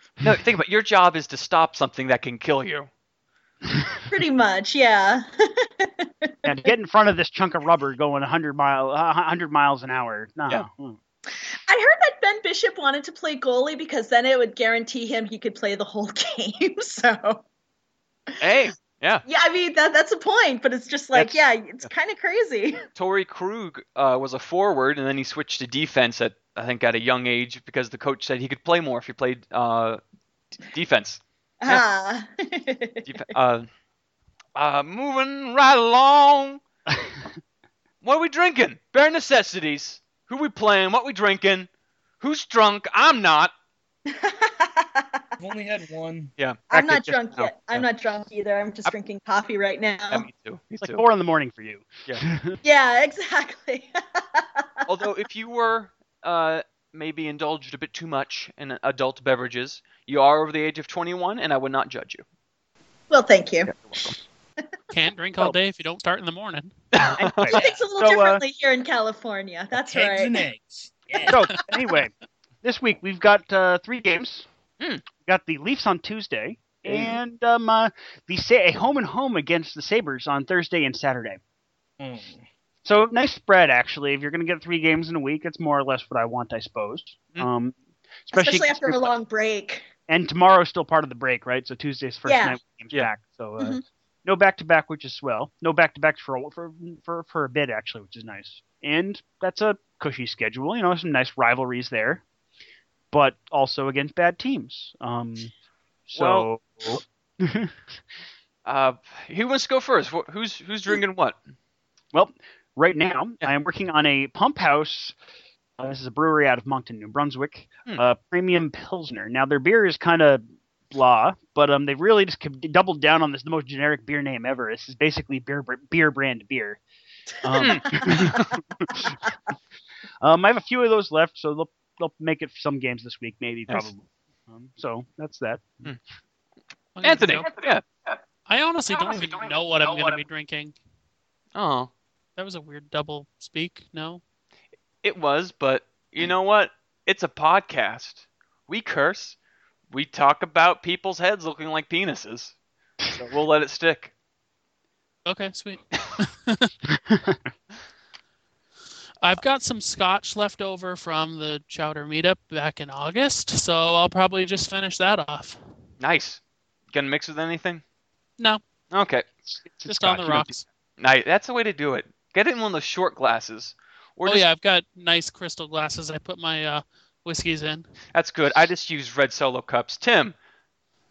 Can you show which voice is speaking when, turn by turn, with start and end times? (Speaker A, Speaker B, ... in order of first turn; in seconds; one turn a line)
Speaker A: 0.2-2.9
Speaker B: 4.1-6.3
Speaker C: 6.4-11.0
Speaker B: 11.3-17.4
Speaker A: 18.4-19.2
Speaker B: 19.3-22.8
Speaker A: 22.9-30.0
Speaker A: 30.6-31.8
Speaker B: 31.6-33.1
Speaker A: 33.0-33.7
Speaker A: 34.5-36.6
Speaker A: 38.0-41.7
Speaker A: 42.2-43.5
Speaker B: 44.1-45.2
Speaker D: 45.4-46.3
Speaker B: 46.7-50.3
Speaker C: 46.7-47.5
Speaker A: 50.1-51.0
Speaker C: 50.8-52.6
Speaker B: 52.6-54.9
Speaker A: 54.9-62.2
Speaker B: 63.1-64.6
Speaker A: 63.6-64.2
Speaker E: 64.9-66.7
Speaker A: 66.9-67.6
Speaker C: 67.2-68.4
Speaker B: 67.5-70.4
Speaker D: 69.9-71.4
Speaker C: 71.2-74.5
Speaker C: 75.1-81.4
Speaker D: 82.0-82.4
Speaker C: 82.8-89.1
Speaker B: 88.3-89.9
Speaker C: 90.1-102.2
Speaker B: 92.3-92.6
Speaker C: 103.1-105.5
Speaker C: 106.1-107.7
Speaker A: 106.2-106.5
Speaker A: 108.7-111.4
Speaker C: 112.1-115.2
Speaker C: 115.8-126.8
Speaker C: 127.4-129.2
Speaker A: 127.6-128.5
Speaker B: 127.6-128.0
Speaker C: 130.2-135.9
Speaker E: 136.9-137.5
Speaker A: 137.0-137.9
Speaker E: 138.5-140.8
Speaker A: 141.6-141.9
Speaker E: 142.4-144.2
Speaker A: 145.0-149.4
Speaker A: 149.9-152.5
Speaker A: 153.1-154.1
Speaker E: 155.2-156.7
Speaker C: 156.9-157.4
Speaker E: 159.2-165.6
Speaker A: 166.0-166.4
Speaker A: 166.9-167.8
Speaker A: 168.9-169.3
Speaker C: 169.4-170.6
Speaker E: 169.9-170.6
Speaker A: 171.0-174.4
Speaker E: 174.3-177.9
Speaker A: 178.1-180.3